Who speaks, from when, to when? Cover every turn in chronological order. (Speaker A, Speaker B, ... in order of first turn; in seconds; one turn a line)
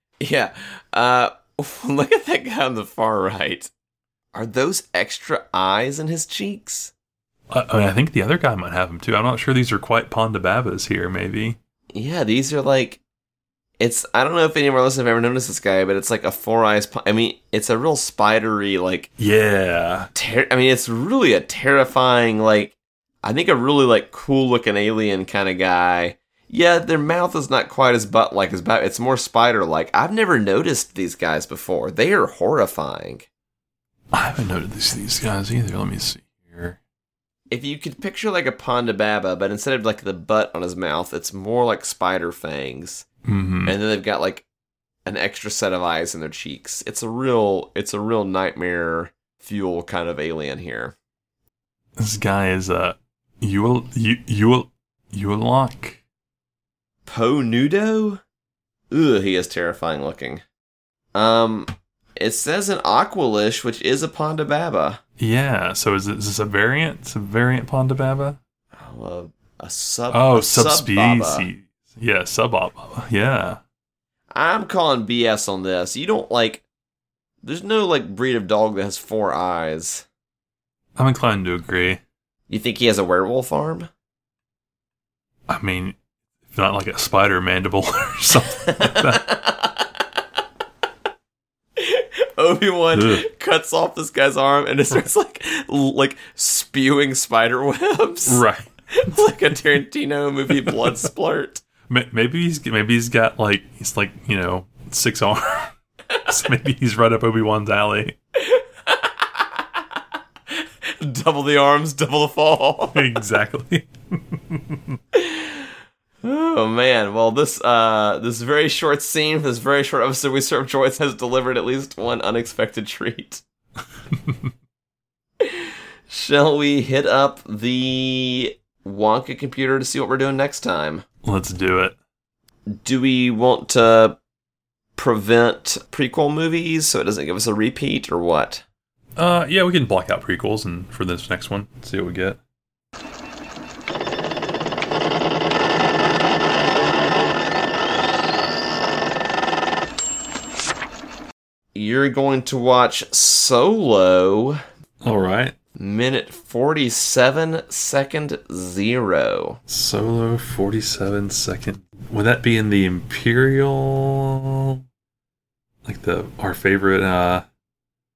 Speaker A: 0.2-3.7
Speaker A: 4.3-6.9
Speaker B: 7.5-11.6
Speaker A: 11.9-13.0
Speaker A: 13.8-19.1
Speaker B: 19.2-20.1
Speaker A: 20.1-33.3
Speaker B: 34.1-36.8
Speaker A: 37.5-43.1
Speaker B: 43.2-43.8
Speaker A: 43.6-44.5
Speaker A: 45.0-51.0
Speaker B: 52.0-56.0
Speaker A: 57.0-58.2
Speaker A: 58.9-60.4
Speaker A: 61.1-65.0
Speaker B: 65.2-68.4
Speaker A: 68.7-71.5
Speaker B: 70.1-73.6
Speaker A: 74.3-76.6
Speaker A: 77.4-80.1
Speaker B: 81.0-82.0
Speaker A: 82.5-83.9
Speaker B: 85.5-86.0
Speaker B: 86.5-89.4
Speaker A: 88.7-89.9
Speaker A: 91.8-98.4
Speaker B: 93.0-93.2
Speaker B: 98.2-99.3
Speaker A: 99.0-101.6
Speaker B: 100.5-100.9
Speaker B: 101.9-105.7
Speaker B: 106.3-108.2
Speaker A: 108.4-109.8
Speaker A: 110.5-113.1
Speaker B: 113.0-114.8
Speaker A: 115.2-115.6
Speaker A: 116.2-123.4
Speaker A: 125.4-131.1
Speaker B: 131.2-132.0
Speaker A: 132.8-134.2
Speaker A: 134.9-138.6
Speaker B: 139.2-142.4
Speaker A: 151.7-154.6
Speaker B: 155.0-155.6
Speaker A: 155.8-159.6
Speaker B: 159.7-164.8
Speaker B: 165.8-167.4